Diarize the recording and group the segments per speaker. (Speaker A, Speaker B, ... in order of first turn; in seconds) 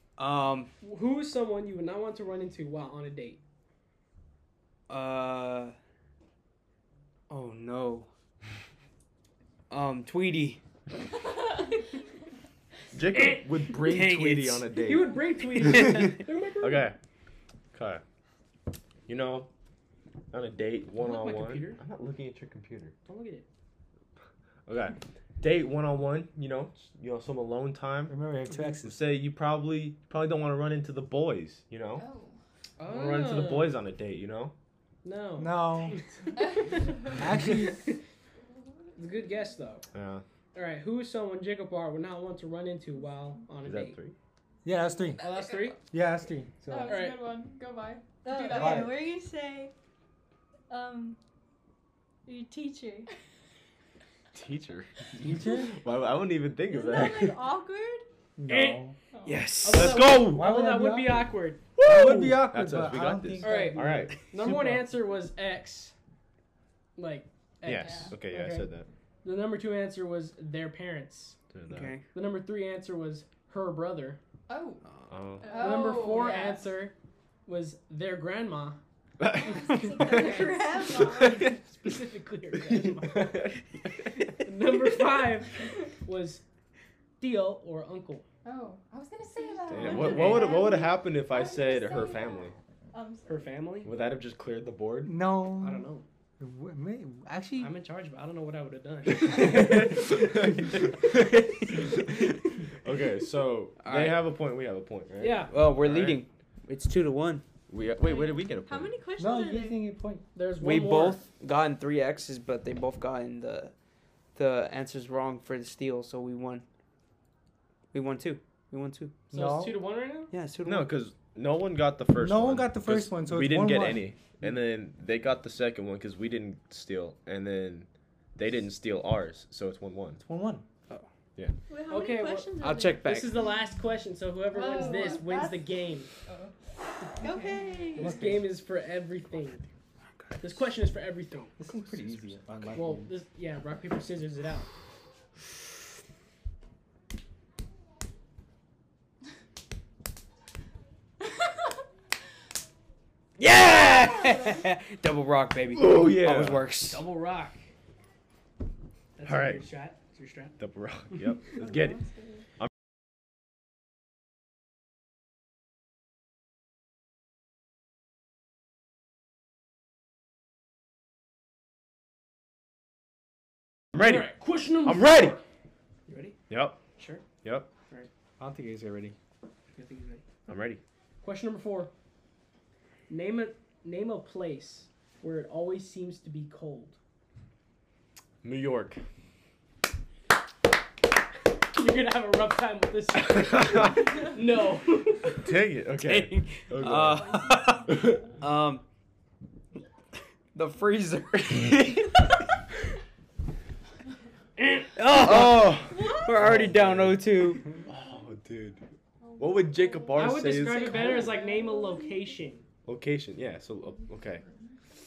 Speaker A: 0.2-0.7, 4.9-5.8, 7.3-8.1, 9.7-10.6, 13.8-14.8, 15.7-16.1, 59.2-60.4, 71.7-72.0, 74.9-75.2, 103.8-104.3, 105.5-107.4, 110.6-113.8, 114.3-116.6, 117.9-119.3, 120.3-121.0, 132.6-133.3, 153.4-157.0, 196.0-198.8, 200.5-202.2, 205.0-207.7
Speaker B: 0.8-3.4, 14.8-16.9, 21.0-21.8, 23.1-23.5, 32.8-33.7, 35.0-38.0, 39.0-39.9, 40.5-44.0, 45.2-45.8, 46.9-47.3, 58.5-58.8, 59.6-62.4, 63.4-65.9, 67.0-68.7, 69.2-71.4, 72.1-74.2, 75.5-76.9, 77.5-78.8, 81.5-83.5, 84.4-86.4, 87.2-88.2, 90.0-90.5, 93.3-93.9, 95.6-96.0, 97.6-99.9, 105.2-105.5, 110.3-111.2, 119.3-120.3, 131.9-136.1, 137.9-139.7, 140.4-141.6, 142.7-144.7, 156.8-157.7, 159.2-160.6, 174.0-175.2, 176.1-176.4, 177.0-177.2, 179.8-180.2, 181.2-181.9, 183.1-187.0, 191.7-195.5, 204.6-204.8, 210.2-212.6
Speaker C: 12.9-16.1, 16.6-17.0, 17.7-18.0, 19.1-19.5, 20.3-22.9, 24.7-28.2, 28.8-32.0, 32.9-34.5, 39.9-40.2, 43.6-44.1, 54.3-57.5, 59.7-60.0, 61.8-64.6, 67.6-68.9, 71.5-72.0, 75.1-75.5, 79.2-81.6, 82.7-84.3, 89.7-92.6, 93.8-95.2, 99.5-101.2, 102.8-106.2, 107.7-109.0, 120.7-130.2, 155.7-156.7, 159.3-159.6, 160.6-161.9, 174.0-174.3, 174.8-175.4, 176.5-176.8, 177.4-177.7, 180.5-180.8, 188.4-189.0, 195.4-197.2, 197.8-198.2, 205.2-207.2, 207.8-208.8, 209.4-210.8, 212.9-214.4
Speaker D: 28.1-29.0, 35.4-36.0, 37.1-37.8, 44.6-45.2, 45.9-47.0, 48.5-49.0, 55.2-55.7, 58.4-59.0, 60.2-61.3, 61.8-64.8, 95.1-95.9, 96.4-97.7, 109.2-110.2, 119.3-119.7, 122.2-124.1, 130.2-130.6, 138.0-138.4, 141.6-143.1, 178.4-179.2
Speaker E: 31.9-32.4, 46.7-49.0, 59.1-59.5, 67.7-68.1, 74.5-74.9, 75.5-76.6, 79.5-80.7, 88.4-92.5, 134.6-135.2, 136.2-136.5, 137.2-138.1, 209.3-210.2, 210.9-211.3, 213.9-214.5
Speaker F: 48.2-49.7, 50.7-51.2, 52.3-53.1, 56.7-58.0, 75.4-76.3, 79.5-81.5, 89.3-91.0, 92.9-93.5, 108.0-109.8, 131.7-133.4, 134.5-135.7, 137.2-138.1, 205.8-206.3, 210.6-212.3